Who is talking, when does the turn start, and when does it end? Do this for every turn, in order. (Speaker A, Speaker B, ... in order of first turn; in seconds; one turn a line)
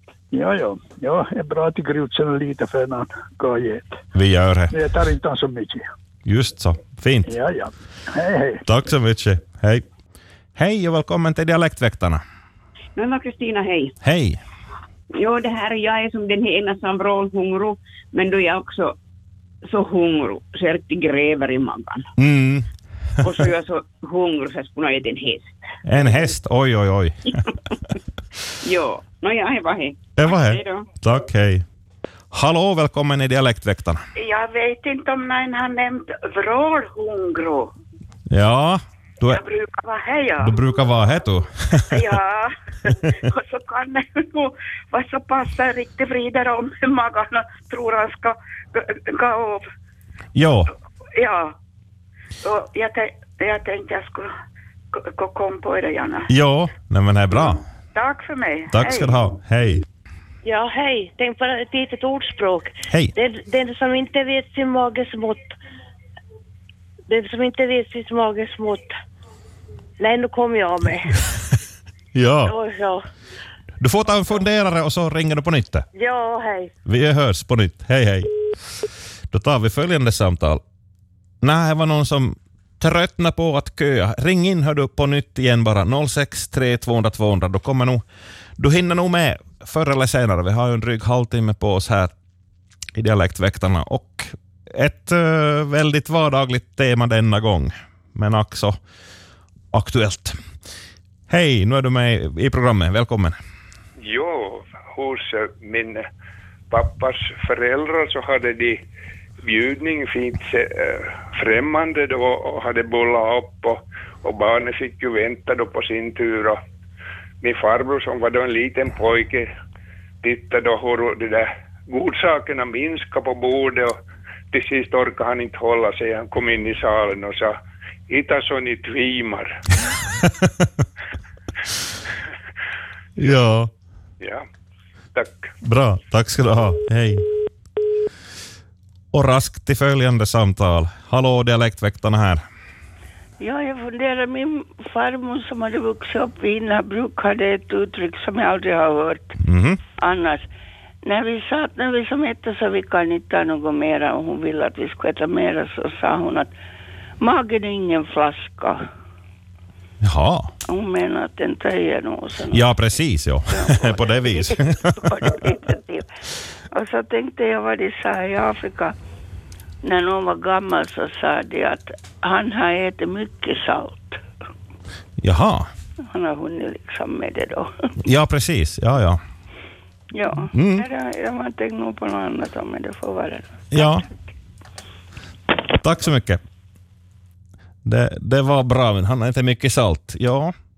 Speaker A: 0.3-4.0
Speaker B: 4.1-4.7
Speaker A: 4.7-5.8
Speaker B: 6.2-7.3
Speaker A: 7.3-8.6
Speaker B: 8.7-9.8
Speaker B: 10.6-12.2
Speaker C: 12.9-13.9
Speaker B: 14.0-14.4
Speaker C: 15.1-18.9
Speaker C: 19.6-22.1
Speaker B: 22.2-22.7
Speaker C: 23.2-26.2
Speaker B: 25.8-27.2
Speaker C: 28.6-30.9
Speaker B: 30.2-31.6
Speaker B: 32.3-34.0
Speaker D: 34.1-37.7
Speaker B: 38.3-39.4
Speaker D: 39.2-40.5
Speaker B: 40.4-42.0
Speaker D: 41.9-49.6
Speaker B: 50.3-50.7
Speaker D: 51.1-51.5
Speaker D: 52.4-54.3
Speaker D: 54.9-56.3
Speaker B: 56.3-57.6
Speaker D: 57.3-59.2
Speaker B: 58.7-59.8
Speaker E: 60.4-65.6
Speaker E: 67.1-68.9
Speaker E: 70.0-71.2
Speaker B: 72.1-72.5
Speaker E: 72.4-73.0
Speaker B: 73.8-75.8
Speaker E: 75.9-76.7
Speaker B: 76.8-78.3
Speaker B: 79.3-80.6
Speaker B: 81.4-88.0
Speaker B: 88.6-92.1
Speaker B: 92.9-98.8
Speaker B: 99.7-100.4
Speaker B: 101.3-103.4
Speaker F: 104.0-106.1
Speaker F: 106.7-108.8
Speaker F: 109.4-116.6
Speaker F: 117.4-119.5
Speaker F: 120.2-124.0
Speaker F: 124.5-127.6
Speaker F: 128.1-129.6
Speaker B: 130.4-130.7
Speaker B: 133.2-133.7
Speaker F: 134.2-134.4
Speaker F: 135.1-135.5
Speaker B: 135.6-137.2
Speaker B: 139.1-142.4
Speaker G: 143.4-149.4
Speaker B: 149.4-149.8
Speaker G: 150.0-150.4
Speaker G: 151.0-156.5
Speaker G: 157.2-158.9
Speaker B: 160.0-160.5
Speaker G: 160.7-162.7
Speaker B: 162.5-164.8
Speaker G: 163.5-166.0
Speaker G: 166.7-168.9
Speaker G: 169.8-174.2
Speaker B: 175.2-175.7
Speaker G: 176.1-177.9
Speaker B: 178.0-179.2
Speaker G: 180.1-183.9
Speaker B: 180.5-180.8
Speaker B: 183.7-184.0
Speaker B: 185.8-186.4
Speaker B: 187.8-190.5